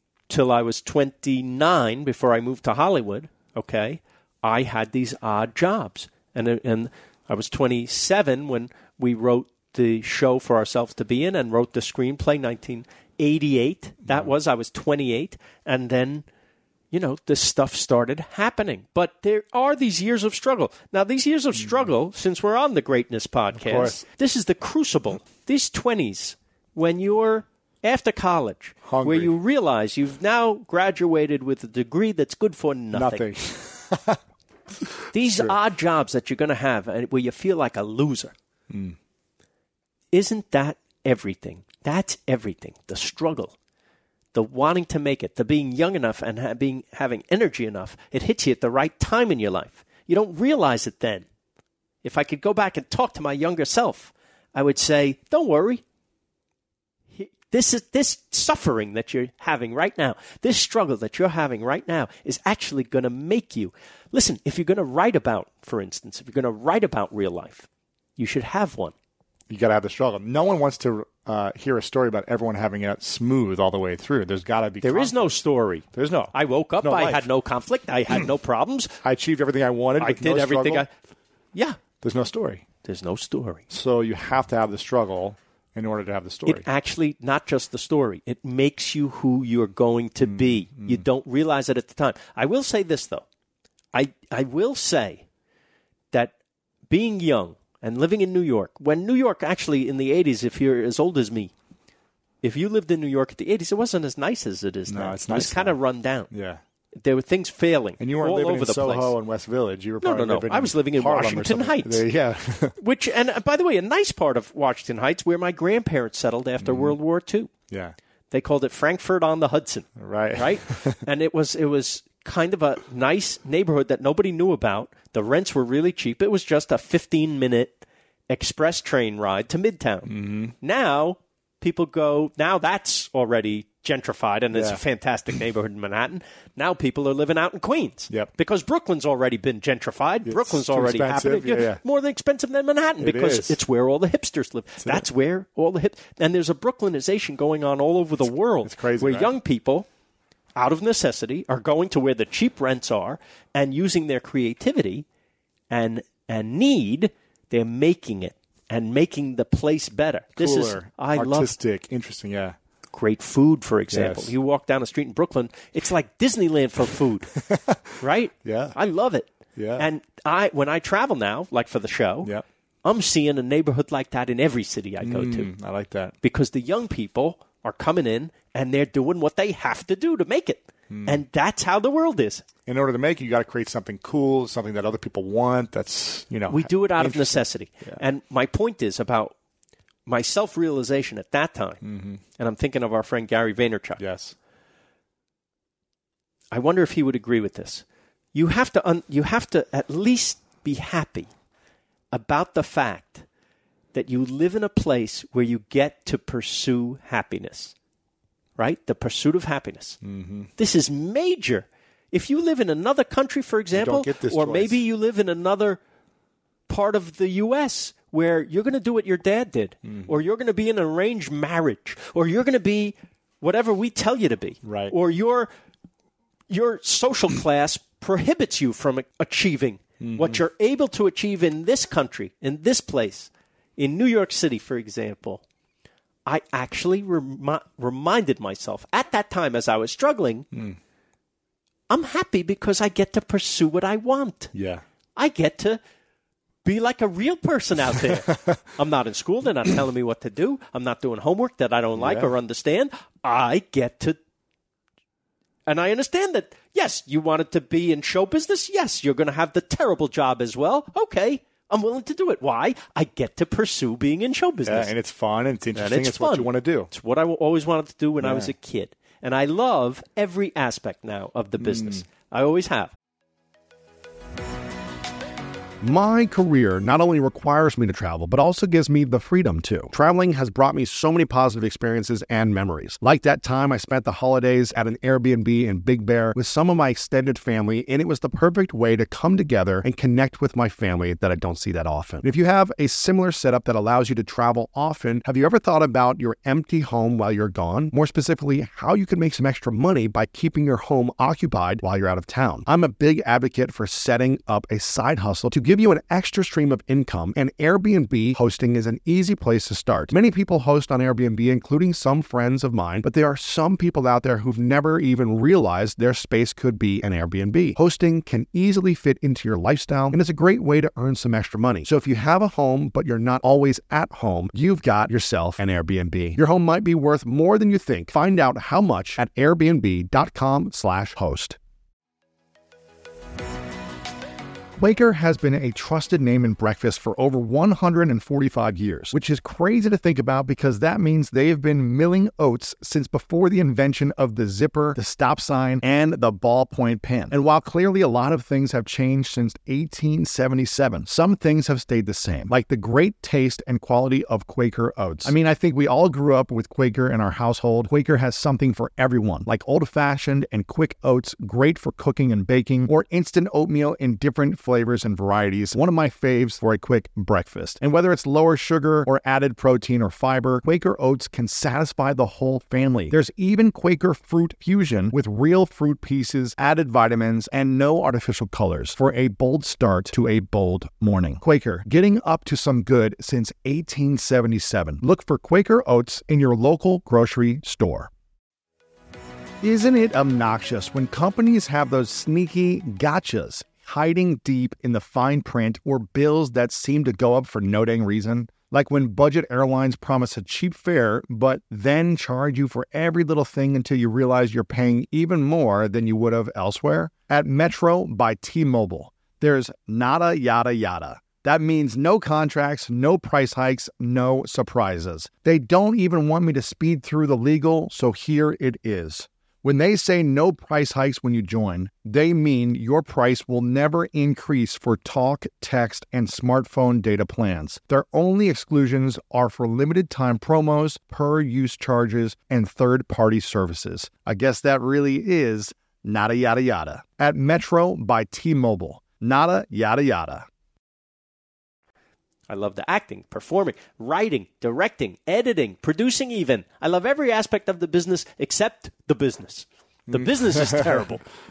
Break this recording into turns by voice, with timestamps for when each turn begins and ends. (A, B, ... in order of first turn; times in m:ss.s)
0:00.3-0:16.2 A
0:16.9-0:33.2 A
0:23.5-0:24.0 B
0:28.8-0:29.3 B
0:32.9-0:34.2 B
0:35.1-0:38.3 A
0:35.2-0:35.5 B
0:38.7-0:39.0 B
0:40.1-0:43.5 A
0:44.3-0:51.2 A
0:52.0-0:55.8 A
0:57.1-1:08.9 A
1:09.5-1:15.3 B
1:14.8-1:19.0 A
1:15.9-1:17.2 B
1:19.0-1:20.8 B
1:20.0-1:20.9 A
1:21.5-1:21.8 A
1:22.0-1:22.6 B
1:22.8-1:23.6 A
1:23.7-1:26.6 B
1:26.4-1:33.2 A
1:30.2-1:31.0 B
1:33.9-1:35.2 A
1:36.9-1:41.5 A
1:42.4-1:46.3 A
1:44.9-1:45.8 B
1:46.3-1:46.6 B
1:47.0-1:49.1 A
1:48.0-1:52.8 B
1:50.0-1:52.0 A
1:52.8-1:57.5 A
1:56.6-1:56.9 B
1:57.7-1:57.9 B
1:58.3-2:29.9 A
2:00.0-2:01.0 B
2:10.1-2:10.5 B
2:14.5-2:14.8 B
2:20.2-2:21.8 B
2:23.0-2:23.6 B
2:28.6-2:29.3 B
2:30.6-2:35.0 A
2:35.7-2:41.5 A
2:40.4-2:42.6 B
2:42.9-2:47.3 A
2:43.9-2:44.3 B
2:47.3-2:47.8 B
2:48.0-2:52.3 A
2:48.4-2:48.8 B
2:49.6-2:49.9 B
2:52.8-2:55.5 A
2:55.0-2:56.1 B
2:56.2-3:02.4 A
3:00.9-3:01.2 B
3:02.6-3:08.0 B
3:06.5-3:09.3 A
3:10.0-3:11.8 A
3:11.8-3:12.2 B
3:12.4-3:14.0 A
3:14.0-3:14.3 B
3:16.5-3:21.3 A
3:22.1-3:23.2 A
3:23.9-3:27.7 A
3:28.6-3:30.0 A
3:30.0-3:30.5 B
3:30.6-3:35.8 A
3:33.7-3:34.8 B
3:36.7-3:45.5 A
3:39.8-3:40.1 B
3:44.6-3:44.9 B
3:46.5-3:55.4 A
3:50.0-3:50.4 B
3:56.2-4:00.5 A
4:01.9-4:04.5 A
4:04.5-4:04.8 B
4:05.2-4:05.8 A
4:06.6-4:14.2 A
4:12.0-4:12.3 B
4:15.7-4:24.9 A
4:24.6-4:26.9 B
4:25.7-4:32.9 A
4:28.2-4:28.5 B
4:31.6-4:32.0 B
4:35.8-5:31.6 C
5:34.8-6:28.1 C
6:29.6-7:20.5 C
7:22.5-7:31.2 A
7:30.1-7:31.0 B